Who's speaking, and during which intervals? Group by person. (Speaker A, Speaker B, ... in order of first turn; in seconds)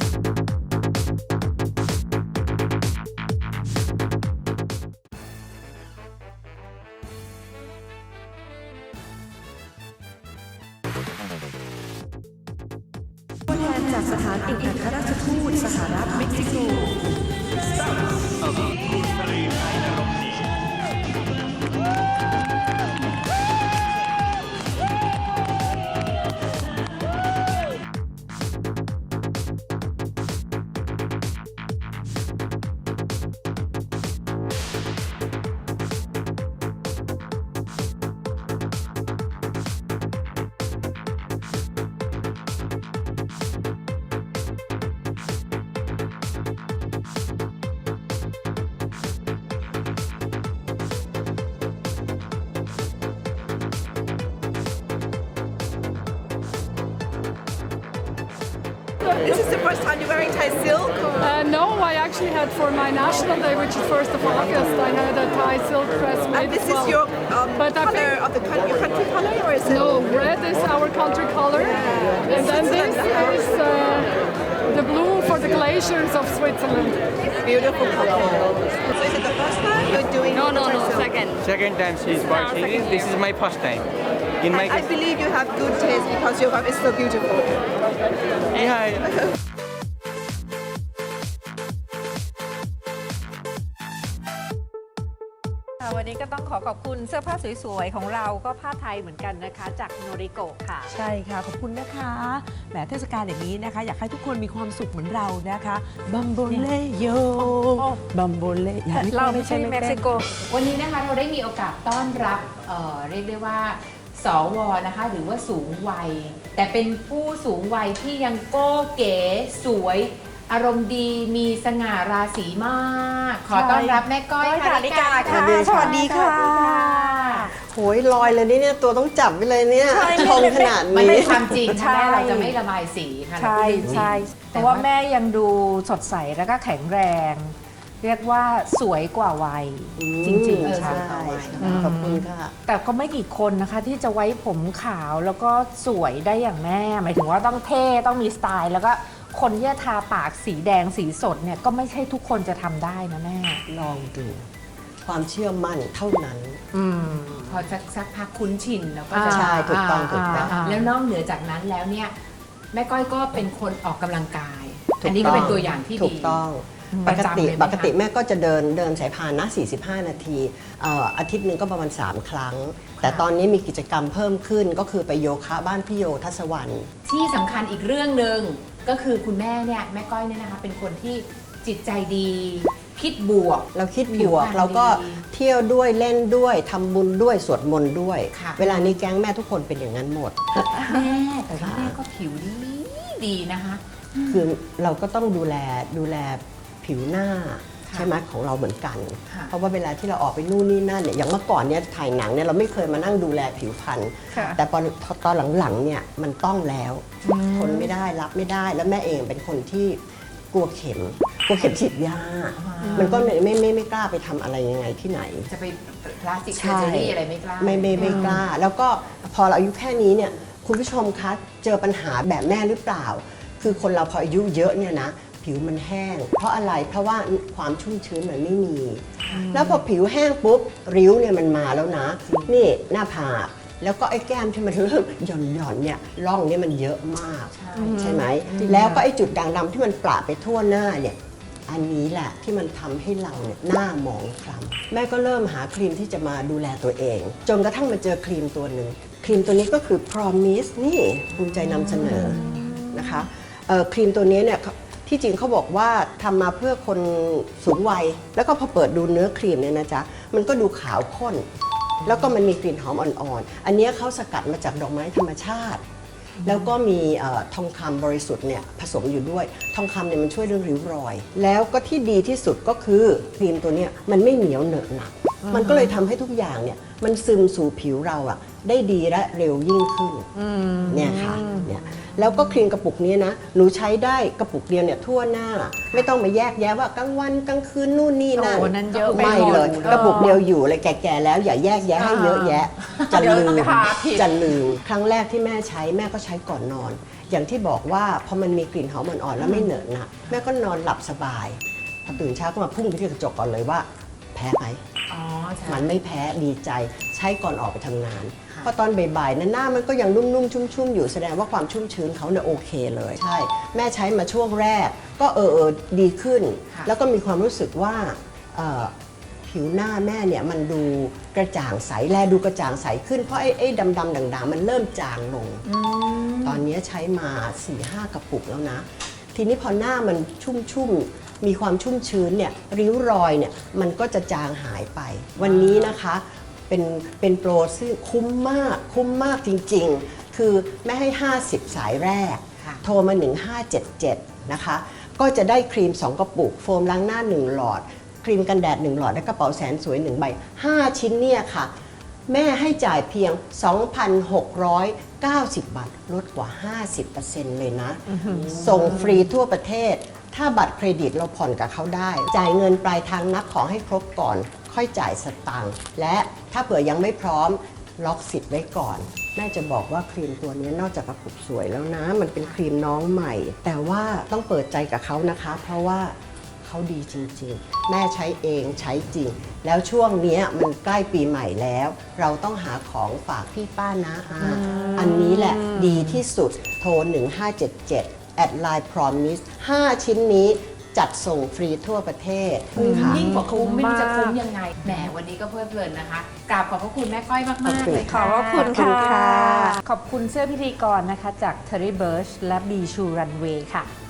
Speaker A: 13.5-16.8, 100.9-110.1
Speaker B: 59.0-61.5, 66.2-70.7, 71.5-74.3, 77.3-81.4, 84.5-87.7, 88.5-89.2
Speaker C: 61.2-66.5, 67.6-68.0, 69.7-71.5, 72.4-74.1, 74.7-76.9
Speaker D: 81.5-83.8
Speaker E: 95.8-100.9, 107.3-108.0, 108.9-110.3, 123.5-127.5, 129.9-132.6, 133.3-141.0, 141.6-153.6, 156.7-157.6, 159.1-160.9, 204.3-204.6, 212.8-213.1, 218.0-218.3, 237.7-239.0, 252.1-253.0, 275.5-275.9, 280.3-281.7, 288.4-290.4, 291.9-294.3, 358.1-359.0, 384.4-386.2, 392.8-394.4, 397.9-403.9
Speaker F: 110.5-127.5, 130.0-134.8, 140.6-141.8, 157.4-162.1, 162.7-168.0, 172.9-173.2, 177.1-185.2, 188.3-189.0, 190.8-194.5, 197.9-198.1, 207.2-207.9, 211.5-211.9, 212.6-213.3, 215.5-218.4, 229.2-229.7, 232.2-232.6, 237.5-239.0, 252.0-252.8, 266.4-266.7, 288.8-290.3, 299.4-299.7, 305.1-305.9, 325.6-326.6, 335.4-336.0, 358.5-358.8, 384.5-384.9, 392.8-399.2
Speaker G: 125.2-126.4, 127.5-131.8, 133.8-134.1, 140.0-142.5, 153.7-154.4, 155.0-156.6, 159.3-160.6, 165.0-176.9, 183.7-190.8, 191.5-192.0, 194.3-215.5, 216.5-261.4, 262.0-265.8, 266.4-280.3, 280.9-304.8, 305.6-318.9, 319.4-325.6, 326.4-351.7, 352.3-393.2, 397.6-399.8